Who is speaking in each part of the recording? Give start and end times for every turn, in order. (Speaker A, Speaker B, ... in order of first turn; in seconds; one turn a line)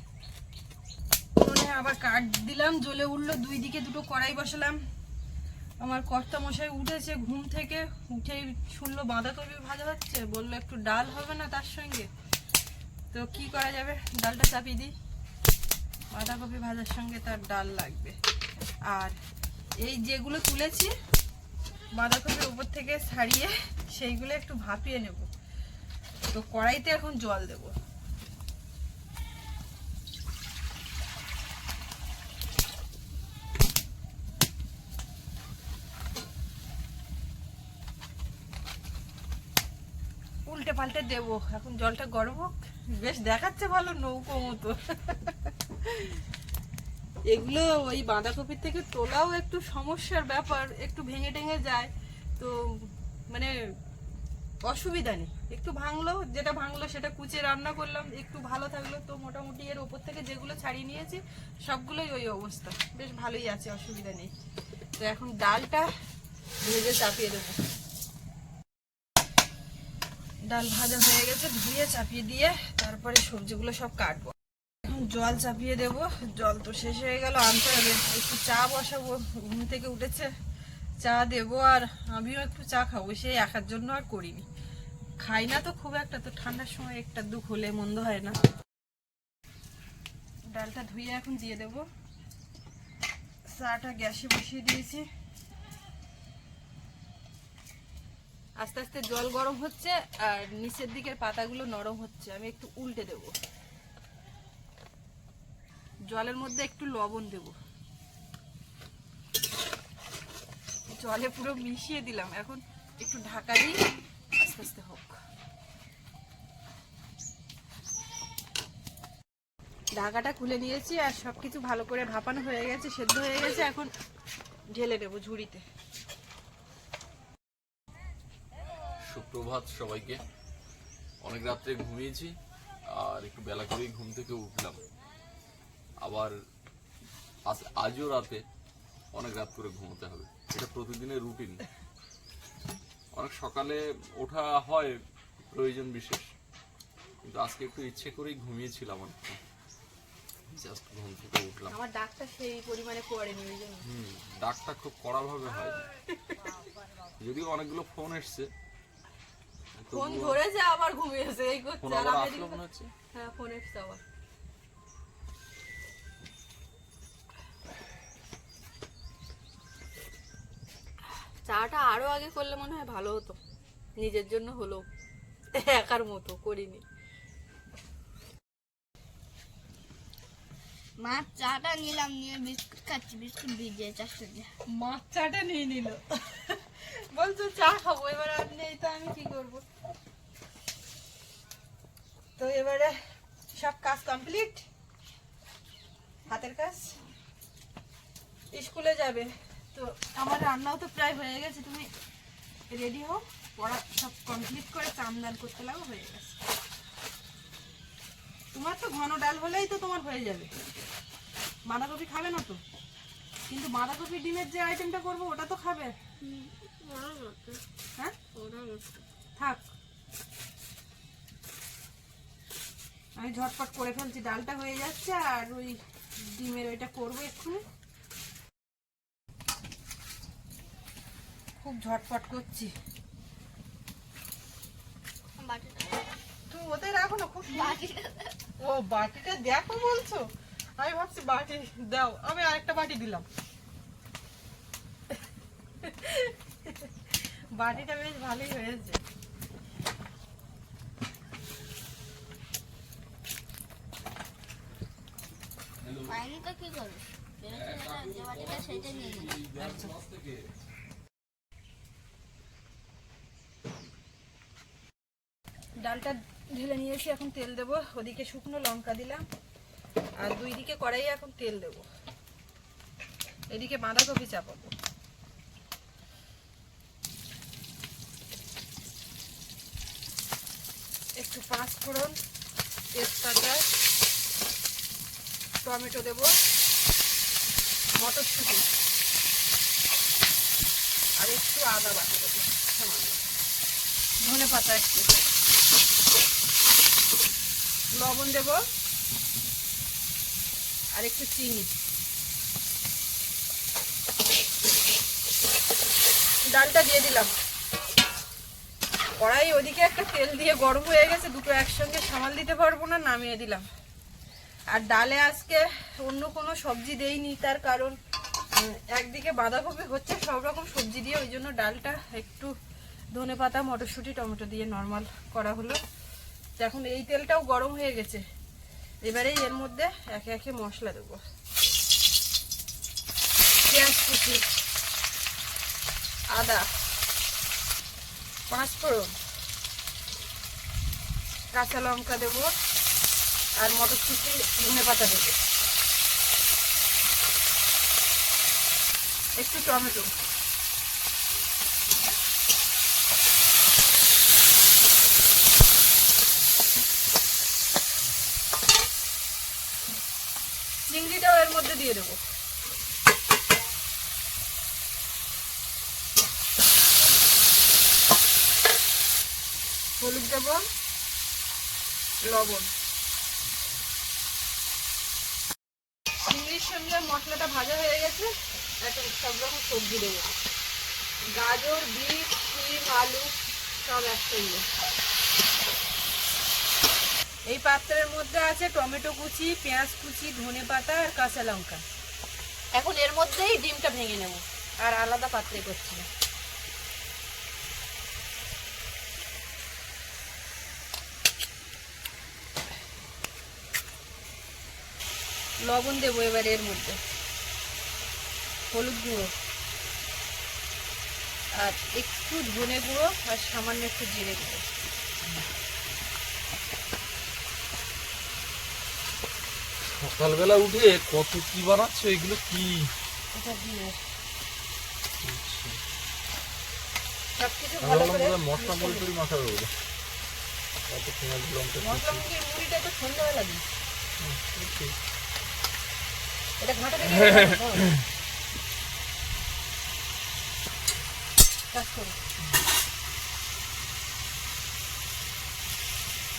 Speaker A: 1.4-4.8
Speaker A: 5.8-12.1
Speaker A: 13.1-14.9
Speaker A: 16.1-18.2
Speaker A: 18.9-19.1
Speaker A: 19.8-20.9
Speaker A: 22.0-25.3
Speaker A: 26.3-27.7
Speaker A: 40.5-46.2
Speaker A: 47.3-53.5
Speaker A: 54.6-64.3
Speaker A: 65.0-65.9
Speaker A: 66.6-67.6
Speaker A: 70.5-80.3
Speaker A: 81.0-84.5
Speaker A: 85.2-88.3
Speaker A: 90.5-91.8
Speaker A: 93.5-95.0
Speaker A: 98.6-103.3
Speaker A: 106.1-107.5
Speaker A: 111.0-113.8
Speaker A: 114.3-115.2
Speaker A: 120.0-123.9
Speaker A: 124.7-125.6
Speaker B: 129.0-130.2
Speaker B: 131.2-132.3
Speaker B: 132.9-134.8
Speaker B: 136.0-136.3
Speaker B: 137.5-138.4
Speaker B: 139.1-141.6
Speaker B: 143.1-146.3
Speaker B: 147.2-149.4
Speaker B: 150.5-151.8
Speaker A: 151.7-153.8
Speaker B: 153.8-155.8
Speaker A: 155.8-156.4
Speaker B: 157.2-158.5
Speaker B: 159.7-160.4
Speaker A: 159.9-162.6
Speaker B: 161.8-162.9
Speaker A: 163.1-164.0
Speaker A: 171.4-173.4
Speaker A: 174.0-174.8
Speaker A: 175.5-176.8
Speaker C: 181.0-184.5
Speaker A: 184.7-189.6
Speaker A: 192.4-193.0
Speaker A: 193.5-194.6
Speaker A: 196.3-197.0
Speaker A: 198.5-201.9
Speaker A: 202.7-206.4
Speaker A: 208.5-210.5
Speaker A: 211.7-212.6
Speaker A: 213.5-215.9
Speaker C: 216.2-217.6
Speaker C: 218.3-218.9
Speaker A: 219.4-219.6
Speaker A: 223.2-227.6
Speaker A: 231.6-232.7
Speaker C: 235.4-236.1
Speaker A: 236.5-237.8
Speaker C: 237.5-238.3
Speaker A: 238.6-240.3
Speaker A: 240.8-243.3
Speaker A: 245.8-246.9
Speaker A: 247.6-249.0
Speaker B: 255.8-256.2
Speaker C: 256.1-259.4
Speaker B: 257.5-260.4
Speaker A: 259.6-259.9
Speaker A: 265.8-269.2
Speaker A: 270.2-271.9
Speaker A: 273.5-274.7
Speaker A: 281.2-282.1
Speaker A: 282.9-283.6
Speaker A: 285.6-286.3
Speaker A: 287.9-288.7
Speaker A: 291.2-293.2
Speaker A: 294.2-295.1
Speaker A: 297.9-298.6
Speaker A: 300.9-301.7
Speaker A: 306.4-307.3
Speaker A: 309.2-313.7
Speaker A: 314.7-318.0
Speaker A: 318.5-322.5
Speaker A: 323.1-325.8
Speaker A: 326.6-328.2
Speaker A: 329.0-331.2
Speaker A: 333.6-334.5
Speaker A: 336.3-336.7
Speaker A: 338.5-339.1
Speaker A: 341.5-342.5
Speaker A: 343.6-345.4
Speaker A: 349.4-350.1
Speaker A: 360.8-362.2
Speaker A: 370.0-370.6
Speaker A: 372.2-372.7
Speaker A: 376.2-380.3
Speaker A: 381.3-383.3
Speaker A: 383.8-384.6
Speaker A: 387.5-391.8
Speaker A: 392.7-396.1
Speaker A: 405.6-407.0
Speaker A: 408.7-409.3
Speaker A: 411.6-414.6
Speaker B: 419.9-422.9
Speaker A: 423.3-424.0
Speaker B: 425.2-425.8
Speaker A: 427.4-429.1
Speaker B: 427.8-429.7
Speaker B: 430.9-432.2
Speaker A: 431.8-433.6
Speaker B: 434.2-434.9
Speaker A: 436.6-437.9
Speaker B: 437.1-437.6
Speaker A: 441.7-442.2